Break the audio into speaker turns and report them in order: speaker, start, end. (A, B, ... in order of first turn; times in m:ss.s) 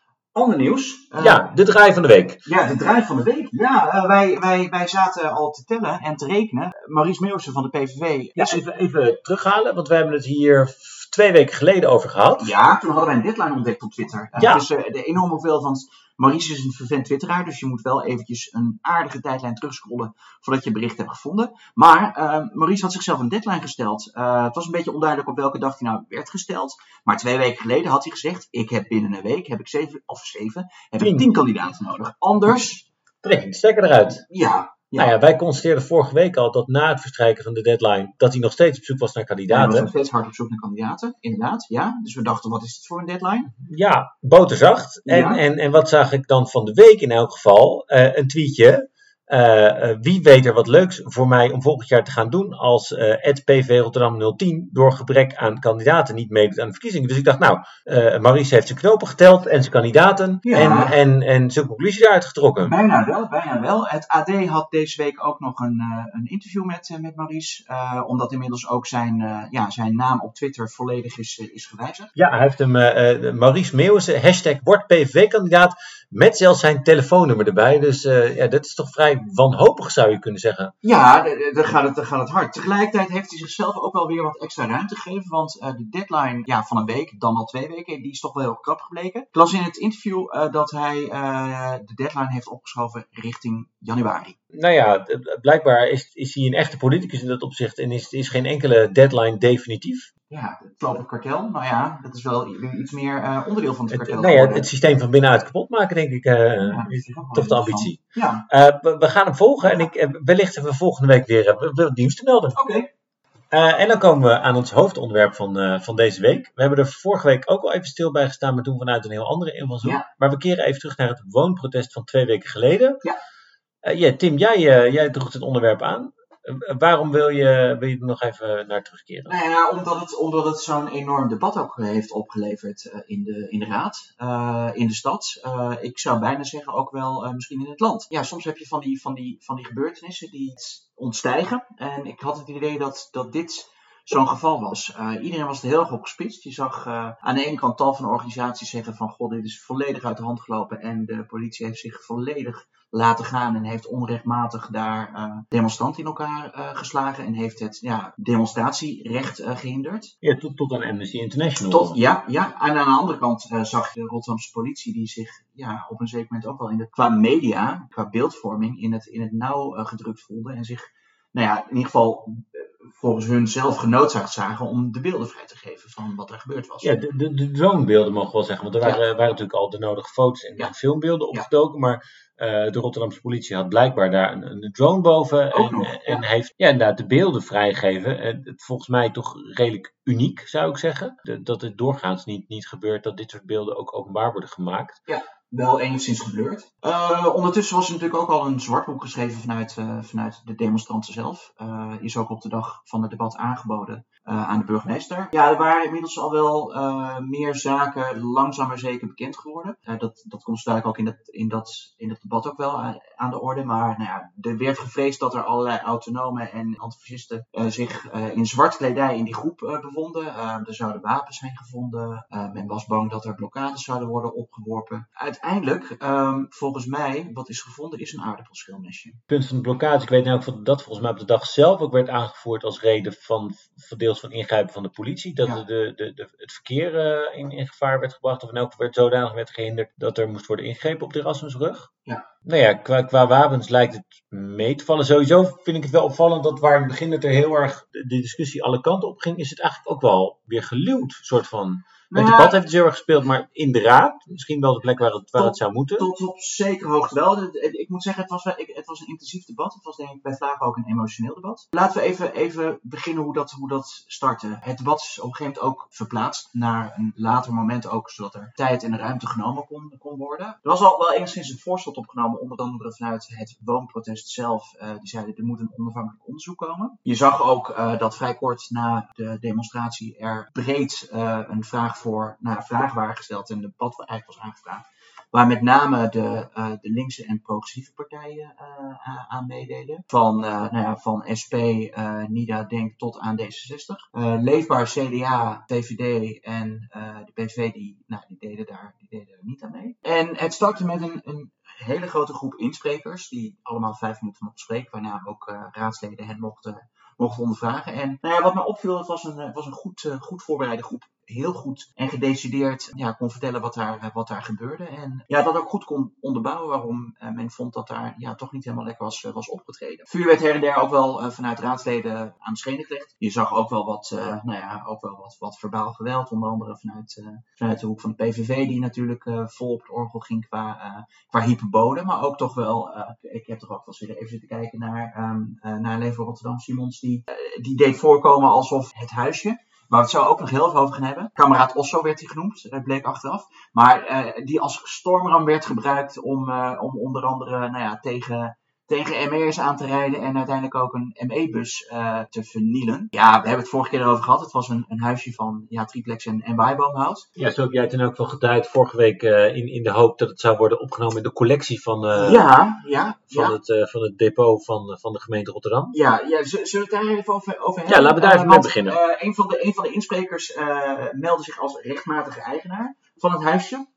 0:00.4-0:01.5 A
0:01.2-0:02.4 B
0:02.5-0:08.6 A
0:08.4-0:12.5 B
0:12.4-0:32.9 A
0:14.4-0:14.6 B
0:31.0-0:31.3 B
0:33.2-0:34.3 B
0:34.3-0:35.1 A
0:35.0-0:39.9 B
0:39.5-0:43.5 A
0:43.6-1:02.8 B
0:45.0-0:45.4 A
1:00.4-1:01.0 A
1:02.6-1:12.1 A
1:12.2-1:20.7 B
1:20.8-1:34.4 A
1:34.5-1:40.1 B
1:40.3-1:44.7 A
1:43.9-1:52.6 B
1:46.7-1:48.5 A
1:52.5-1:52.9 A
1:53.5-2:03.0 B
2:03.8-2:09.4 B
2:09.3-2:40.1 A
2:40.2-2:42.0 B
2:41.7-2:56.9 A
2:56.8-3:15.0 B
3:05.5-3:06.2 A
3:15.1-3:49.2 A
3:49.3-4:01.9 B
4:02.4-4:16.1 B
4:12.1-4:12.6 A
4:15.4-5:57.3 A
5:57.4-6:02.5 B
6:02.1-6:03.6 A
6:03.3-6:06.0 B
6:05.9-6:13.9 A
6:07.9-6:09.0 B